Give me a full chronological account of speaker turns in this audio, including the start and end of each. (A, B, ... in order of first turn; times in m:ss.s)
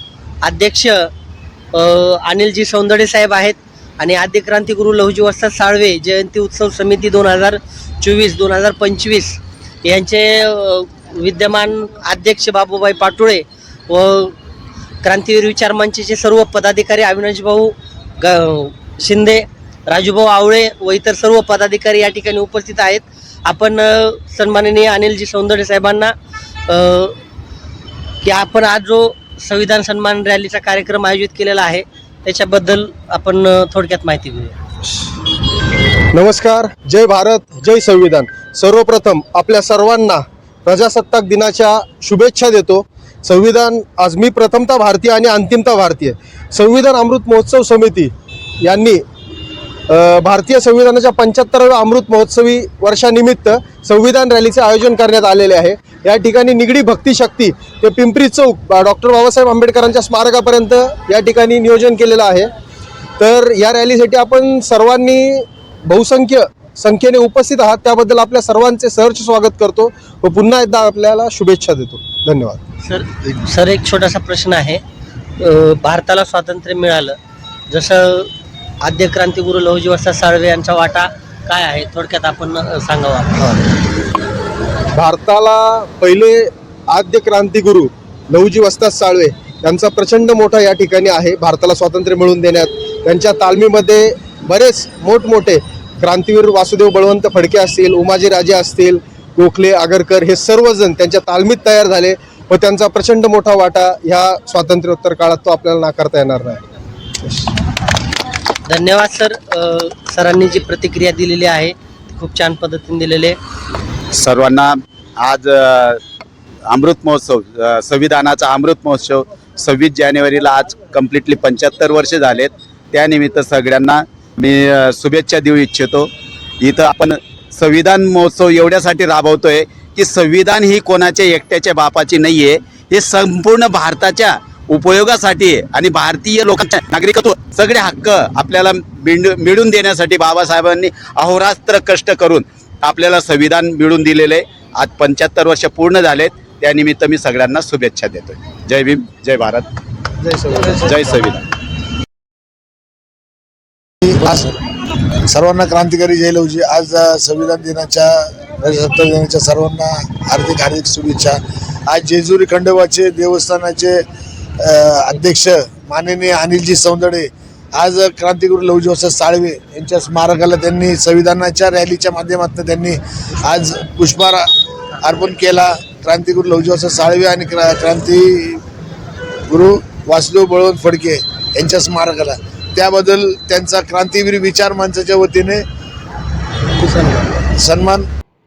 0:00.4-0:01.1 A
0:01.7-0:14.4 A
0:15.0-0:26.1 A
0:26.7-0:27.2 A
0:28.2-0:34.5 A
0:36.1-0:49.0 B
0:49.9-1:02.5 B
1:03.2-1:12.6 B
1:12.8-1:14.8 A
1:15.4-1:17.2 A
1:17.7-1:18.3 A
1:18.8-1:23.5 A
1:24.9-1:46.6 B
1:48.6-1:53.4 A
1:54.1-1:56.0 C
1:56.7-2:06.1 C
2:06.6-2:29.6 C
2:30.2-2:30.8 B
2:30.8-2:31.4 C
2:34.0-2:34.5 D
2:35.3-2:44.0 D
2:44.6-2:54.4 D
2:55.0-2:58.6 D
2:59.5-3:05.6 D
3:06.8-3:07.3 A
3:07.6-3:08.0 D